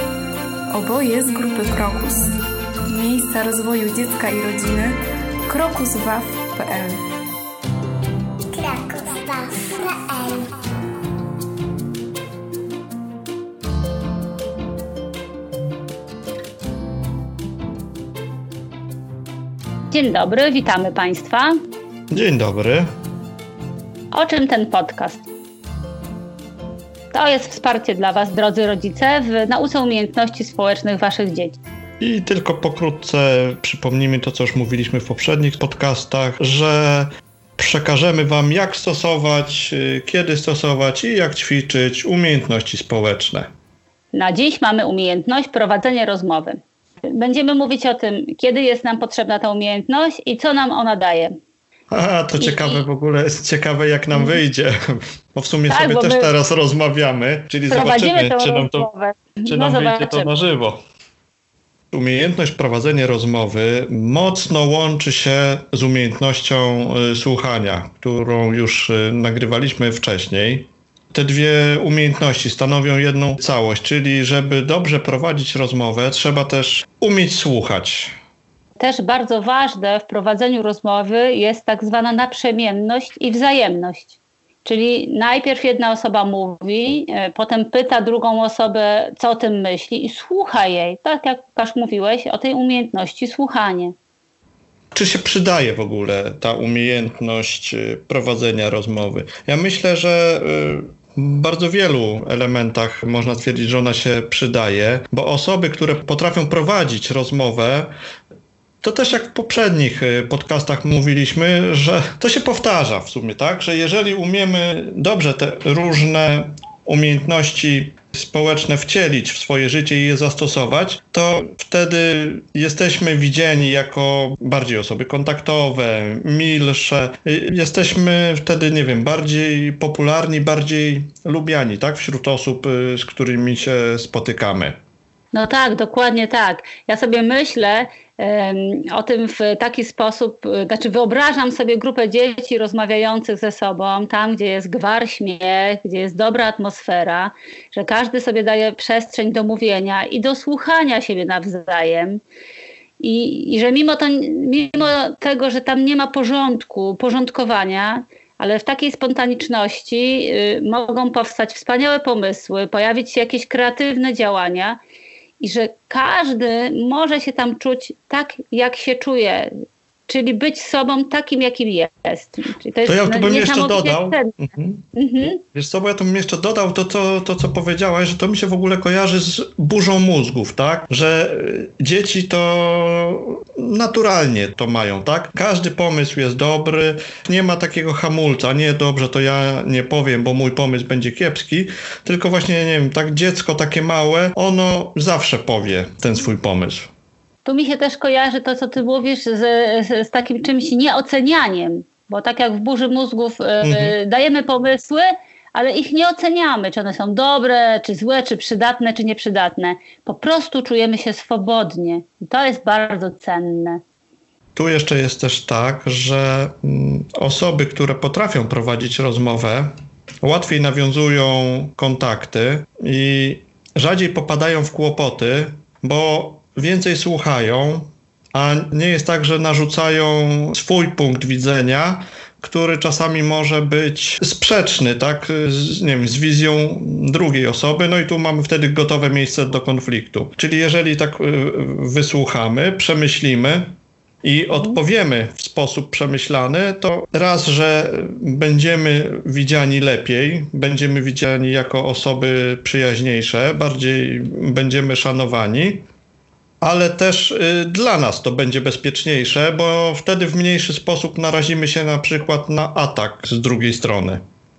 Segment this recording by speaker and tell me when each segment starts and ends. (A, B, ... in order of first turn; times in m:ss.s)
0:00.7-0:02.3 A
0:02.9-0:07.0 A
0:08.5-0:10.5 B
0:19.9-0:21.6 C
0:22.1-0:22.9 D
0:24.1-0:25.2 C
0:27.1-0:31.6 C
0:32.0-0:43.5 D
0:44.1-0:46.6 C
0:47.1-0:51.3 C
0:51.9-0:58.9 D
0:52.4-0:52.8 C
0:54.1-0:54.4 C
0:55.7-0:56.3 C
0:57.7-1:00.3 C
0:59.4-1:00.8 D
1:01.9-1:18.1 D
1:18.8-1:33.9 C
1:34.9-1:47.9 D
1:48.8-2:14.8 D
2:15.3-2:32.2 C
2:33.0-2:44.8 C
2:45.4-2:49.5 C
2:50.1-2:54.3 C
2:52.8-2:54.8 D
2:54.9-2:55.4 C
2:55.5-3:16.9 D
3:17.4-3:33.8 C
3:23.6-3:23.9 D
3:34.5-4:15.8 D
4:16.6-4:24.2 D